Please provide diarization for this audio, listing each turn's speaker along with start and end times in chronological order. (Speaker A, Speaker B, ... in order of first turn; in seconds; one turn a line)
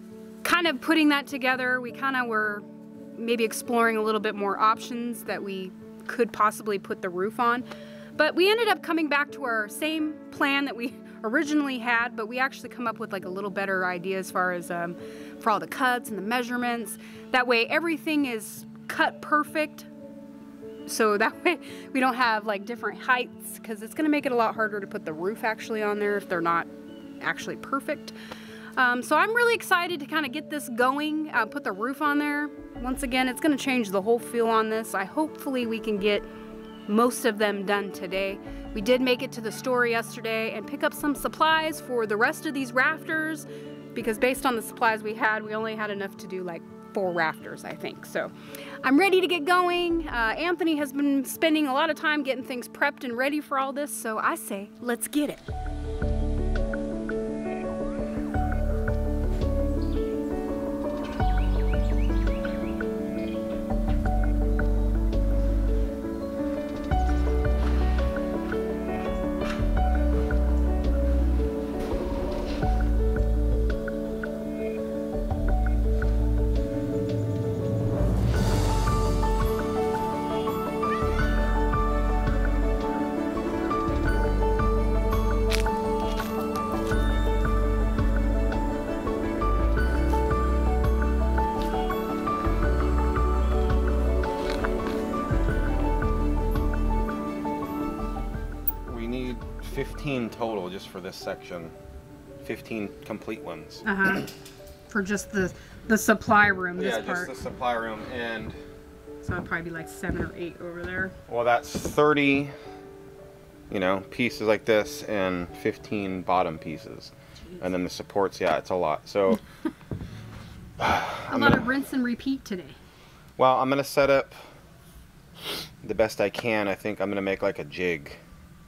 Speaker A: 0.4-2.6
Speaker A: 3.1-7.7
Speaker A: 8.2-19.9
Speaker A: 20.9-26.7
Speaker A: 27.2-28.1
Speaker A: 28.8-36.2
Speaker A: 36.9-48.3
Speaker A: 48.8-55.4
Speaker B: 98.8-101.7
Speaker B: 102.4-104.3
Speaker A: 103.8-104.3
Speaker A: 104.9-107.3
Speaker B: 106.8-108.6
Speaker A: 109.2-111.1
Speaker B: 111.3-112.5
Speaker B: 113.7-119.4
Speaker B: 120.8-121.7
Speaker A: 121.3-122.8
Speaker B: 123.4-124.4
Speaker B: 125.8-128.2